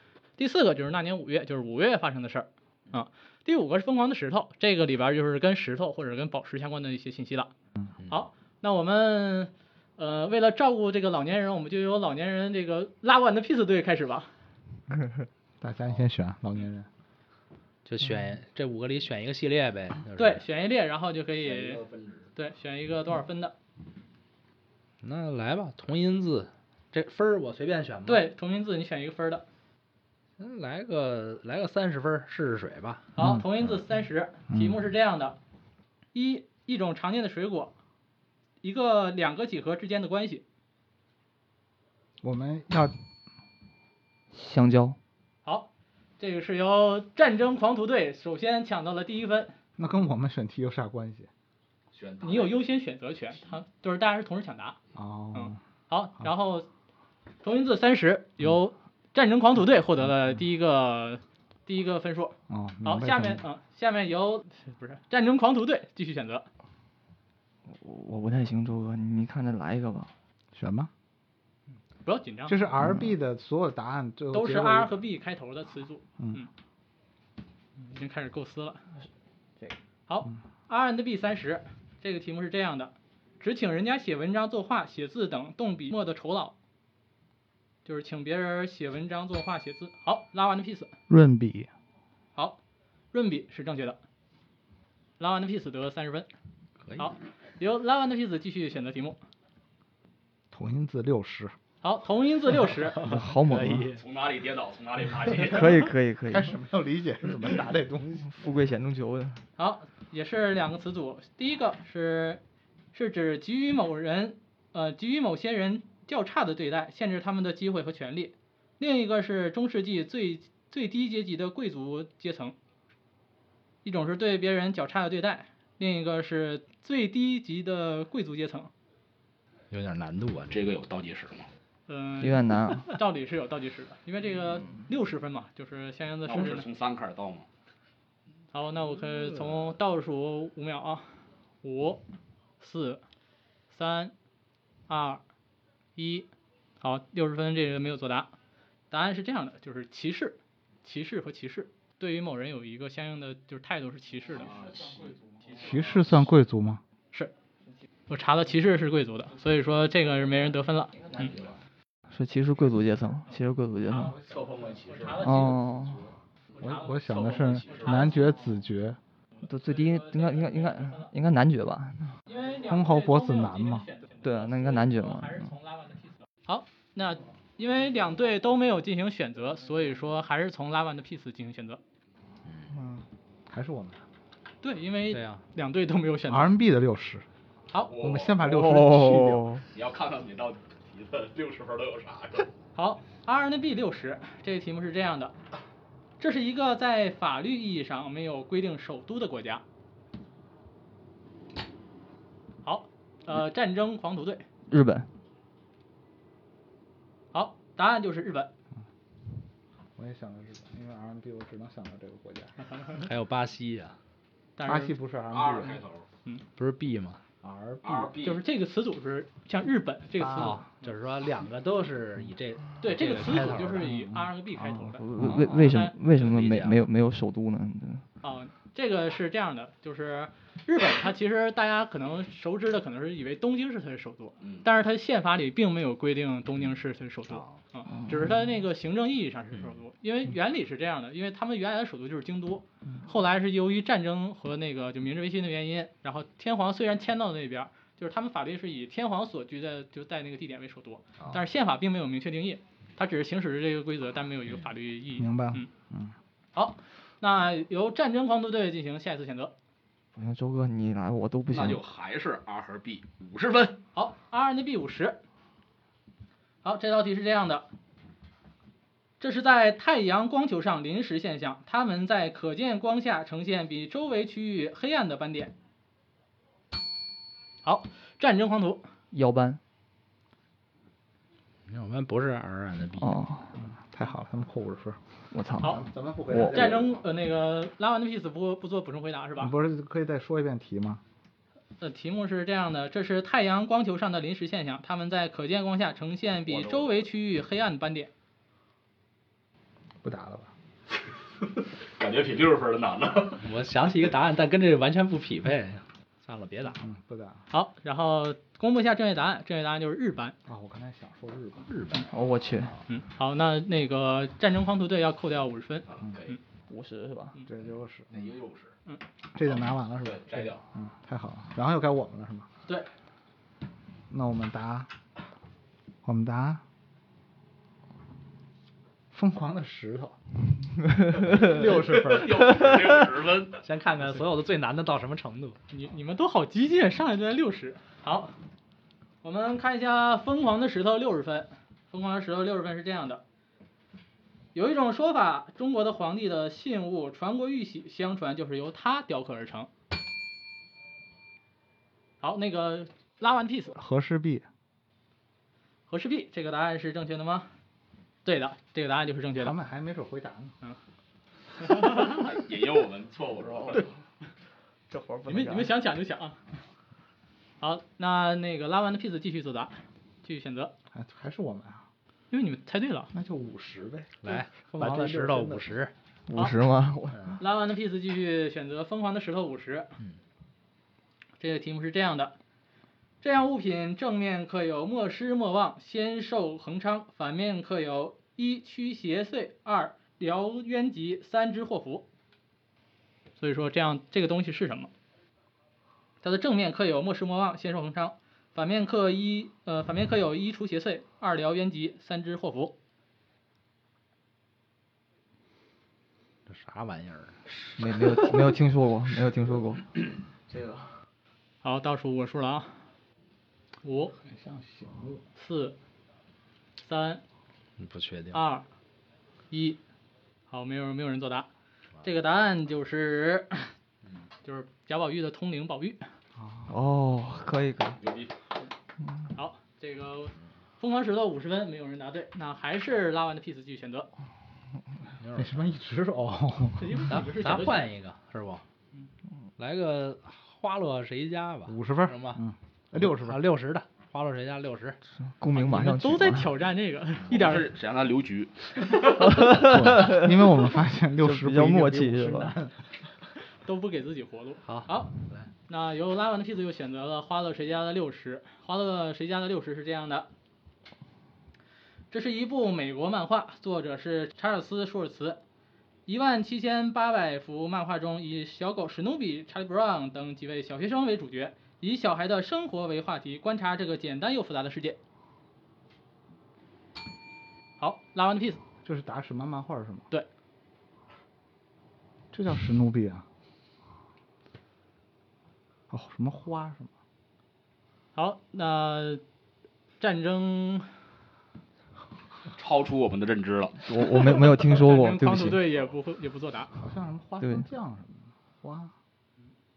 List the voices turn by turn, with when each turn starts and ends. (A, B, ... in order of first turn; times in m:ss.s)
0:00.4-0:07.5 A
0:08.1-0:14.3 A
0:15.6-0:16.9 B
0:17.8-0:20.4 C
0:20.2-0:21.8 A
0:21.4-0:22.3 D
0:22.3-0:23.5 A
0:25.0-0:28.2 C
0:28.1-0:29.4 A
0:30.4-0:33.1 C
0:33.1-0:35.4 A
0:33.2-0:33.5 B
0:34.5-0:34.8 B
0:36.1-0:37.7 A
0:38.6-0:40.4 A
0:42.2-0:42.9 B
0:44.3-0:45.0 E
0:45.4-0:49.5 A
0:49.8-0:51.3 B
0:51.9-0:52.6 D
0:52.2-0:54.8 A
0:54.9-0:55.6 B
0:55.3-0:56.7 A
0:57.4-1:06.4 A
1:02.5-1:03.4 B
1:07.7-1:10.1 E
1:10.5-1:10.9 B
1:12.0-1:12.7 A
1:12.4-1:14.9 B
1:14.3-1:16.5 A
1:16.2-1:16.4 B
1:17.8-1:18.8 A
1:20.1-1:26.5 A
1:27.8-1:30.9 A
1:31.1-1:31.7 B
1:33.1-1:34.0 A
1:35.2-1:36.3 A
1:37.0-1:39.2 A
1:40.5-1:41.5 B
1:41.8-1:43.0 A
1:42.8-1:44.0 C
1:43.0-1:43.9 E
1:44.0-1:45.9 D
1:45.4-1:46.5 E
1:46.3-1:48.3 B
1:48.2-1:49.4 E
1:49.6-1:52.4 A
1:52.9-2:02.6 A
2:03.8-2:08.7 A
2:09.7-2:10.6 C
2:10.5-2:11.5 D
2:11.9-2:16.7 A
2:12.2-2:12.9 E
2:16.2-2:17.4 D
2:18.5-2:22.0 A
2:22.6-2:23.0 A
2:23.7-2:24.1 A
2:24.9-2:25.2 A
2:26.0-2:26.3 A
2:26.8-2:28.3 A
2:28.9-2:34.8 A
2:34.4-2:35.1 D
2:35.5-2:36.8 B
2:38.1-2:41.4 A
2:41.2-2:41.5 D
2:42.1-2:44.2 E
2:44.1-2:45.5 D
2:44.9-2:45.6 A
2:45.2-2:46.1 E
2:46.5-2:48.3 A
2:46.6-2:49.0 B
2:47.6-2:48.0 D
2:49.4-2:52.1 E
2:49.6-2:51.1 A
2:52.2-3:01.8 A
2:52.7-2:53.9 B
2:54.2-2:55.5 E
3:02.7-3:04.0 B
3:04.6-3:06.5 A
3:05.1-3:05.4 C
3:06.3-3:07.2 B
3:07.8-3:08.3 D
3:08.0-3:09.6 B
3:08.4-3:09.6 E
3:09.7-3:12.5 D
3:12.7-3:15.3 A
3:16.2-3:19.6 A
3:22.6-3:24.4 A
3:24.7-3:25.1 E
3:27.3-3:28.5 A
3:30.0-3:32.5 B
3:32.6-3:33.1 A
3:33.0-3:34.0 C
3:34.6-3:35.0 A
3:34.6-3:35.8 B
3:35.3-3:36.0 D
3:36.6-3:37.2 C
3:37.4-3:38.1 B
3:37.8-3:38.4 D
3:38.2-3:40.9 A
3:40.2-3:40.6 B
3:40.3-3:43.9 C
3:42.8-3:46.0 A
3:43.6-3:45.4 B
3:45.0-3:48.0 E
3:46.2-3:46.8 D
3:48.2-4:15.7 A
3:54.4-3:54.7 D
3:57.3-3:57.6 C
4:15.2-4:16.1 B
4:16.5-4:19.5 A
4:20.1-4:21.8 E
4:21.5-4:23.8 D
4:23.9-4:25.2 A
4:26.6-4:27.6 A
4:29.2-4:35.5 A
4:37.6-4:38.8 A
4:39.1-4:39.6 E
4:41.7-4:43.2 C
4:43.0-4:43.5 E
4:43.6-4:45.0 B
4:45.3-4:46.7 E
4:45.6-4:47.0 B
4:46.5-4:49.5 A
4:49.4-4:51.0 B
4:51.8-4:58.1 A
4:56.5-4:56.9 D
5:00.0-5:00.5 B
5:02.0-5:03.4 D
5:03.4-5:06.8 C
5:06.8-5:07.4 B
5:07.5-5:10.4 A
5:10.4-5:11.7 B
5:11.6-5:12.1 C
5:12.1-5:12.7 E
5:12.9-5:16.4 A
5:15.9-5:16.4 D
5:16.7-5:17.4 E
5:17.5-5:18.2 B
5:18.1-5:18.7 D
5:19.3-5:22.5 B
5:20.0-5:20.6 D
5:24.1-5:24.9 B
5:26.0-5:26.6 B
5:29.1-5:30.2 B
5:31.1-5:32.7 B
5:31.3-5:33.6 D
5:33.6-5:35.6 C
5:35.7-5:38.4 A
5:39.2-5:43.2 A
5:44.5-5:49.7 A
5:52.2-5:53.7 A
5:53.7-5:54.4 B
5:55.9-5:57.5 A
5:58.2-5:59.6 A
5:59.4-6:00.5 B
6:01.6-6:02.2 A
6:02.0-6:03.9 D
6:04.9-6:05.7 E
6:05.3-6:06.4 A
6:07.6-6:10.7 A
6:10.9-6:11.8 B
6:12.3-6:13.1 A
6:13.1-6:15.7 B
6:14.2-6:15.9 C
6:16.3-6:17.4 E
6:17.4-6:19.9 A
6:21.4-6:22.3 A
6:23.2-6:32.1 A
6:33.4-6:34.9 A
6:36.2-6:42.8 A
6:46.5-6:47.4 C
6:47.7-6:50.9 E
6:51.6-6:52.8 A
6:53.8-6:54.1 A
6:54.2-6:55.2 B
6:55.4-6:55.8 A
6:56.8-6:57.2 A
6:57.8-6:58.4 C
6:58.3-6:58.6 A
6:59.5-6:59.8 A
7:00.5-7:01.5 A
7:02.0-7:03.7 A
7:04.4-7:06.0 A
7:06.4-7:06.7 B
7:06.7-7:08.0 E
7:08.0-7:08.3 D
7:09.3-7:14.1 A
7:15.2-7:15.6 C
7:15.3-7:17.1 B
7:16.8-7:17.9 A
7:17.1-7:18.6 C
7:19.6-7:22.4 C
7:21.6-7:23.4 B
7:22.9-7:25.0 C
7:25.2-7:26.5 E
7:25.5-7:27.7 A
7:27.3-7:29.4 D
7:29.2-7:30.4 E
7:29.5-7:32.8 B
7:31.2-7:32.5 E
7:33.6-7:35.1 A
7:34.6-7:35.5 C
7:35.7-7:40.3 A
7:42.1-7:45.4 A
7:46.1-7:55.0 A
7:57.8-7:58.6 A
7:58.8-8:00.1 B
8:02.3-8:03.2 B
8:05.9-8:06.9 B
8:08.1-8:09.2 A
8:10.0-8:10.9 A
8:12.6-8:13.8 D
8:13.8-8:15.6 E
8:14.6-8:16.7 A
8:16.8-8:18.9 B